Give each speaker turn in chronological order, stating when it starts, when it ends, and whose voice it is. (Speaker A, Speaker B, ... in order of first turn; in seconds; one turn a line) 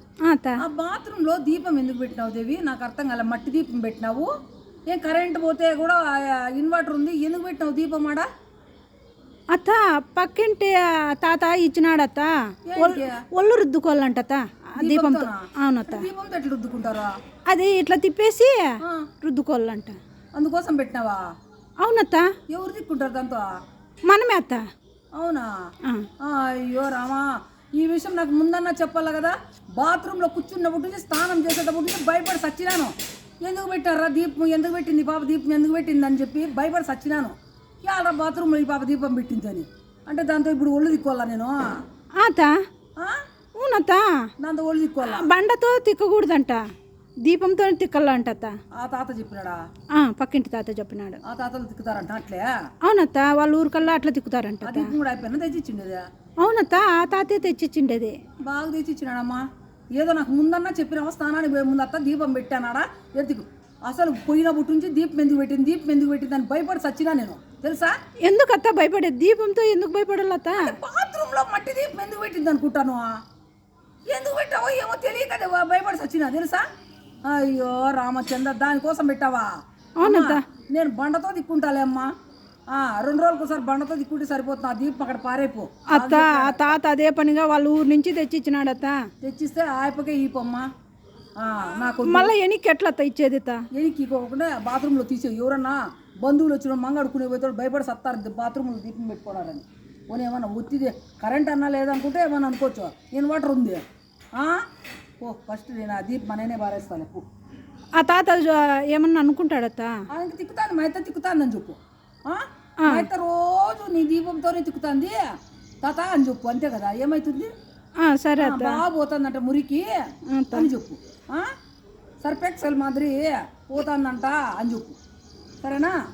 Speaker A: 0.2-0.6
Speaker B: 0.6-4.3
Speaker B: 4.9-8.3
Speaker A: 9.5-16.1
Speaker B: 12.7-13.2
Speaker B: 14.8-17.1
Speaker A: 17.5-20.0
Speaker B: 18.8-19.1
Speaker B: 20.4-21.2
Speaker A: 21.8-22.3
Speaker B: 22.5-23.5
Speaker A: 24.1-24.6
Speaker B: 25.2-25.5
Speaker B: 26.2-41.7
Speaker A: 42.2-42.6
Speaker A: 43.5-44.0
Speaker B: 44.4-45.3
Speaker A: 45.0-46.6
Speaker A: 47.2-48.5
Speaker B: 48.8-49.6
Speaker A: 49.9-51.2
Speaker B: 51.2-52.5
Speaker A: 52.8-54.9
Speaker B: 54.6-56.0
Speaker A: 56.4-58.2
Speaker B: 58.4-59.5
Speaker B: 60.0-68.0
Speaker A: 68.2-70.8
Speaker B: 70.6-73.1
Speaker B: 74.1-76.6
Speaker B: 77.3-79.5
Speaker A: 80.0-80.4
Speaker B: 80.0-82.1
Speaker B: 82.7-86.8
Speaker A: 85.9-89.0
Speaker B: 89.2-90.7
Speaker B: 91.4-92.3
Speaker A: 92.0-93.6
Speaker B: 93.7-103.8
Speaker B: 104.4-104.7
Speaker B: 105.2-107.2
Speaker A: 108.0-110.0
Speaker B: 110.1-115.3
Speaker B: 115.8-117.5
Speaker A: 118.0-118.8
Speaker B: 118.4-120.0
Speaker A: 120.3-120.7
Speaker B: 120.5-121.5
Speaker B: 122.2-125.0
Speaker B: 125.6-126.0